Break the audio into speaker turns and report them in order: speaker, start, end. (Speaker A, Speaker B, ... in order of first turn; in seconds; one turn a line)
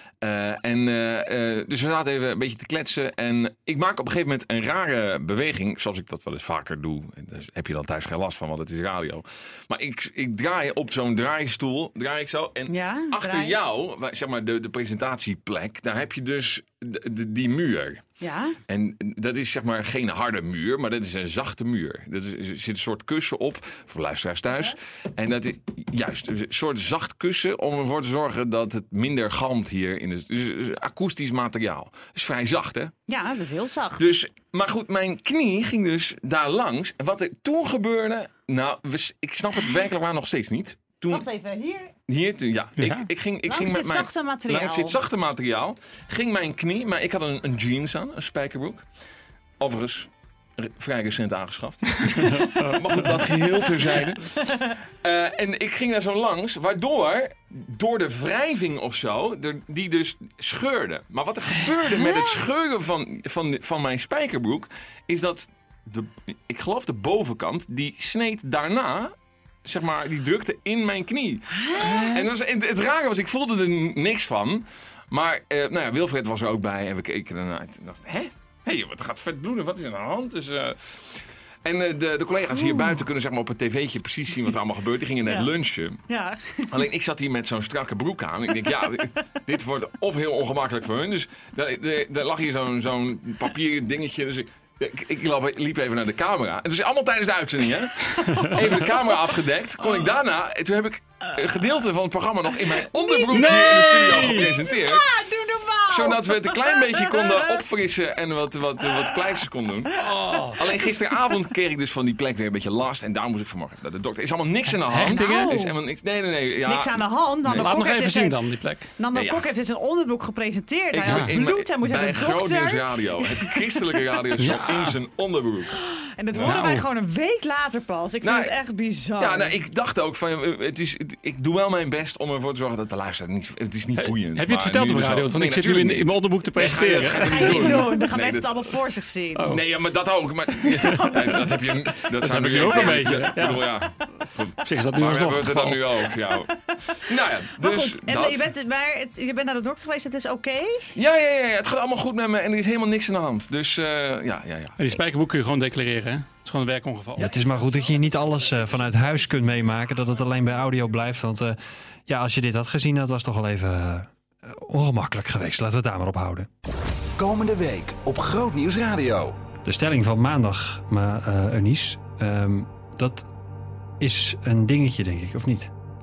Speaker A: 0.2-18.1
Speaker B: 12.7-13.6
Speaker B: 18.2-18.6
Speaker A: 18.7-32.9
Speaker B: 33.1-34.1
Speaker A: 34.0-41.3
Speaker B: 41.1-41.9
Speaker A: 42.1-48.9
Speaker C: 42.8-43.1
Speaker B: 43.5-45.0
Speaker A: 49.6-69.1
Speaker C: 52.1-52.7
Speaker A: 69.6-86.0
Speaker B: 71.6-72.3
Speaker B: 82.6-83.0
Speaker B: 85.2-85.5
Speaker B: 86.1-86.7
Speaker A: 86.7-105.1
Speaker B: 103.0-107.6
Speaker C: 103.3-104.5
Speaker A: 105.9-117.7
Speaker B: 108.9-109.3
Speaker C: 110.0-110.6
Speaker B: 110.1-110.5
Speaker C: 114.9-115.5
Speaker B: 115.0-115.8
Speaker B: 116.6-118.4
Speaker C: 117.5-118.9
Speaker B: 119.0-124.0
Speaker A: 119.1-119.5
Speaker A: 120.9-125.8
Speaker C: 124.4-124.9
Speaker B: 125.8-129.6
Speaker A: 126.3-126.6
Speaker C: 126.4-126.8
Speaker A: 128.2-128.5
Speaker A: 129.2-138.7
Speaker C: 134.0-137.9
Speaker B: 137.0-139.5
Speaker C: 139.4-139.6
Speaker A: 139.5-148.5
Speaker C: 140.8-141.2
Speaker B: 141.1-141.5
Speaker C: 142.2-143.9
Speaker B: 142.7-143.1
Speaker C: 144.6-145.8
Speaker B: 147.6-150.8
Speaker A: 150.9-154.8
Speaker C: 154.8-157.4
Speaker D: 157.2-166.5
Speaker E: 167.2-169.4
Speaker D: 169.6-173.3
Speaker D: 174.0-175.7